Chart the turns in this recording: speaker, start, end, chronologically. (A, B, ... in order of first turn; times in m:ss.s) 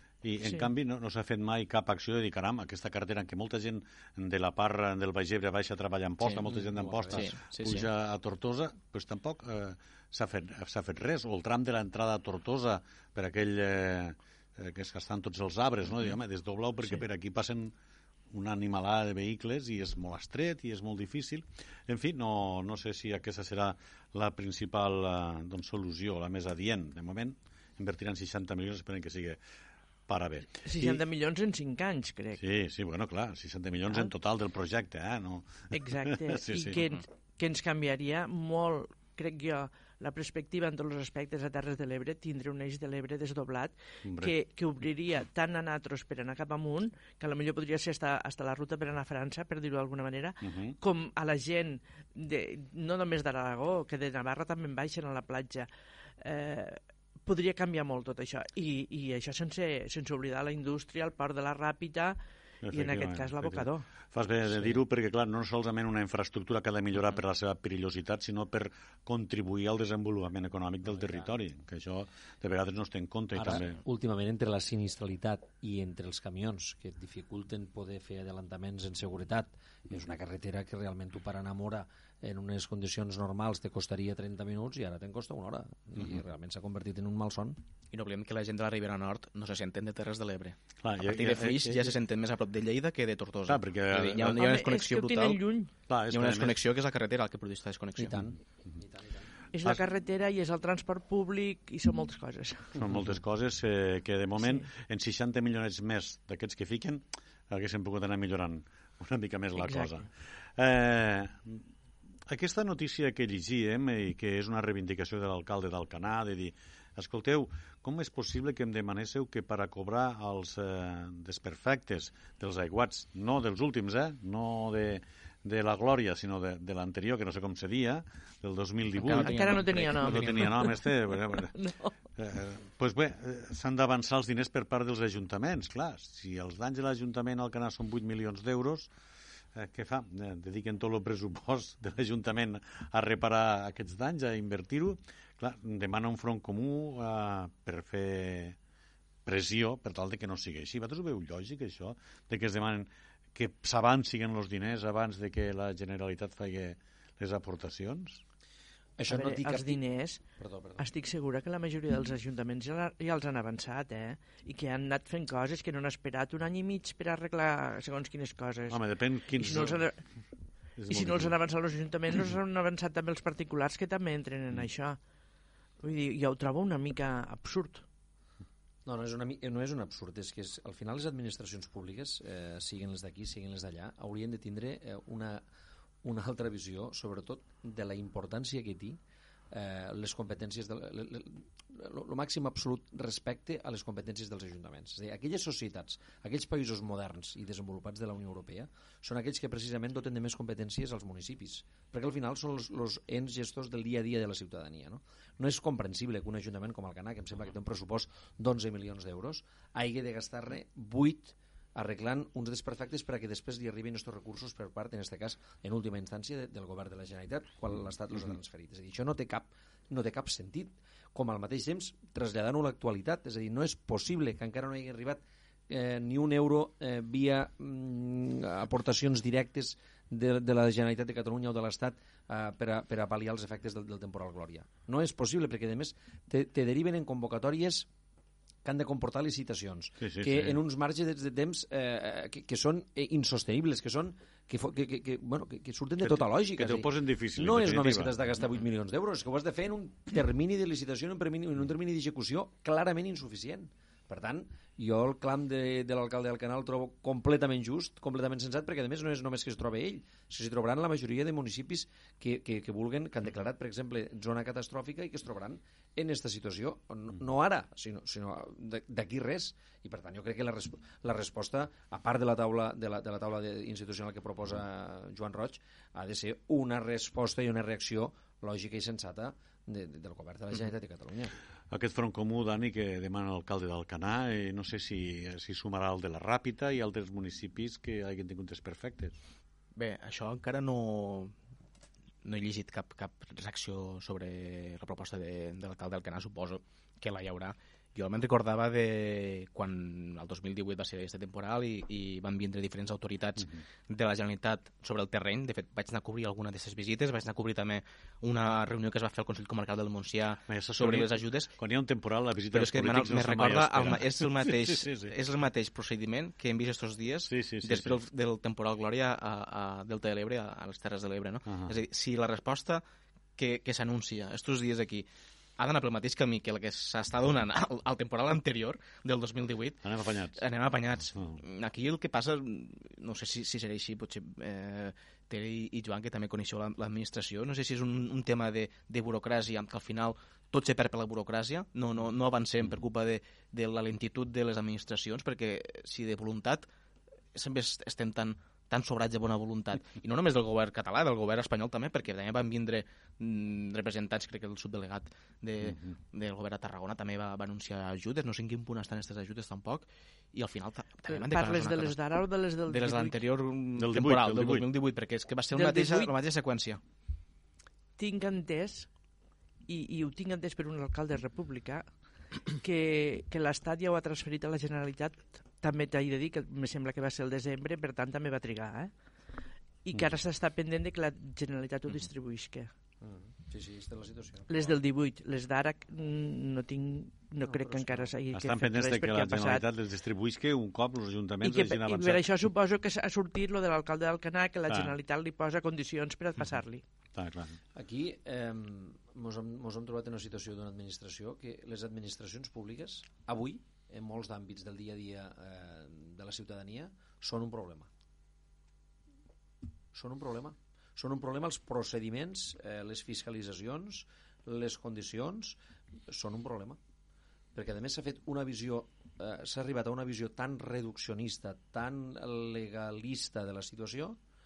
0:00.2-0:17.7 A
0:06.5-0:07.3 B
0:07.1-0:07.9 C
0:18.3-0:29.4 A
0:30.1-0:31.0 A
0:30.6-0:32.4 D
0:32.4-0:36.8 A
0:35.7-0:55.7 D
0:44.0-0:44.3 A
0:50.4-0:50.8 A
0:56.2-1:02.2 D
1:02.6-1:13.8 A
1:02.7-1:03.9 D
1:04.5-1:04.8 B
1:13.4-1:27.6 B
1:27.9-1:35.4 C
1:30.8-1:32.0 A
1:33.5-1:34.4 A
1:34.3-1:35.7 D
1:35.9-1:36.6 A
1:36.1-1:38.2 C
1:38.0-1:39.3 B
1:39.5-1:42.7 D
1:42.8-1:51.6 A
1:44.4-1:44.7 D
1:49.6-1:50.0 D
1:52.3-2:11.6 A
2:09.0-2:10.7 C
2:09.1-2:11.9 D
2:12.2-2:18.9 A
2:19.6-2:28.6 A
2:29.3-2:38.2 A
2:39.0-2:39.8 B
2:39.1-2:40.2 D
2:40.4-2:40.9 B
2:40.8-2:48.8 D
2:48.7-2:49.8 A
2:49.4-2:50.0 D
2:50.8-2:51.3 A
2:50.9-2:55.0 D
2:55.8-2:57.8 D
2:58.8-3:05.4 B
3:06.0-3:09.0 B
3:09.5-3:57.9 B
3:58.6-4:41.4 B
4:00.0-4:00.6 A
4:06.0-4:08.1 A
4:41.7-4:49.2 A
4:49.8-4:51.3 C
4:52.2-5:11.5 C
5:10.5-5:15.1 A
5:12.5-5:22.8 C
5:17.3-5:18.0 A
5:21.5-5:21.8 A
5:23.4-5:25.1 C
5:25.6-5:46.6 C
5:29.8-5:30.4 A
5:47.3-6:02.0 C
5:55.6-5:55.9 A
6:01.1-6:03.2 D
6:02.7-6:06.8 C
6:03.8-6:04.7 A
6:05.5-6:06.1 D
6:08.0-6:08.9 D
6:09.7-6:11.9 D
6:12.6-6:18.9 D
6:19.8-6:22.7 D
6:23.0-6:24.8 B
6:24.5-6:29.6 D
6:27.4-6:28.1 B
6:28.3-6:32.2 A
6:31.4-6:36.8 D
6:34.7-6:35.0 A
6:37.2-6:37.6 A
6:37.8-6:47.9 B
6:49.9-6:56.8 B
6:57.5-7:04.2 B